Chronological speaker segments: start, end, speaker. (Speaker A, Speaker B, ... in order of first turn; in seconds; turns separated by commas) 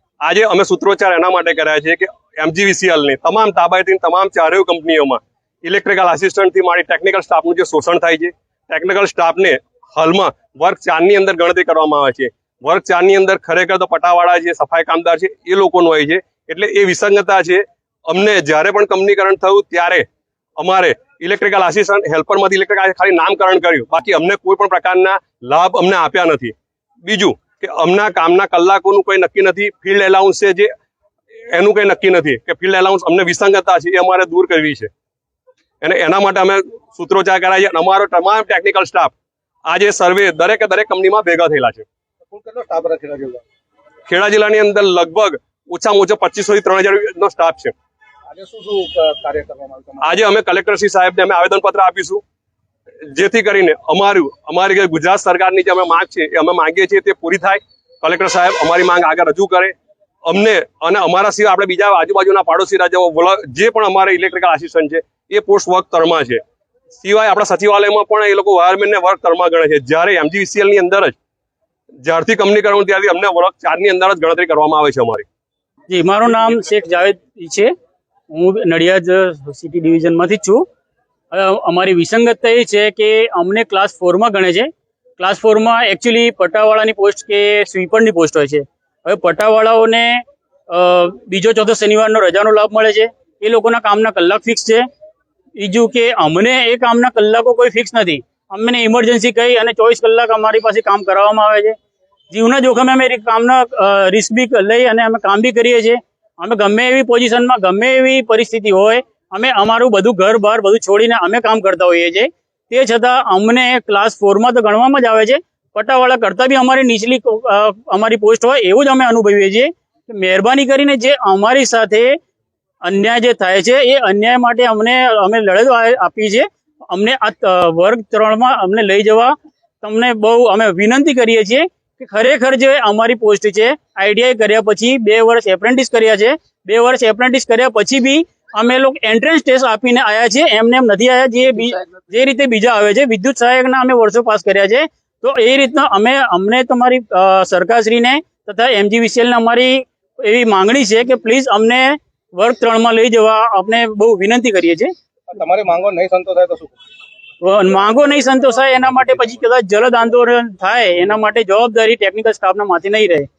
Speaker A: 0.2-20.1, Speaker A: 20.6-30.7, Speaker A: 31.5-34.9, Speaker A: 35.8-39.1, Speaker A: 39.6-41.9, Speaker B: 42.3-43.4, Speaker A: 44.1-47.7, Speaker B: 48.3-50.2, Speaker A: 50.0-52.2, Speaker A: 53.1-66.4, Speaker A: 67.0-71.2, Speaker A: 72.0-75.2, Speaker C: 75.9-77.7, Speaker C: 78.3-80.6, Speaker C: 81.3-94.8, Speaker C: 95.6-101.8, Speaker C: 102.3-122.2, Speaker C: 122.8-154.9, Speaker B: 155.3-156.8, Speaker C: 157.4-163.3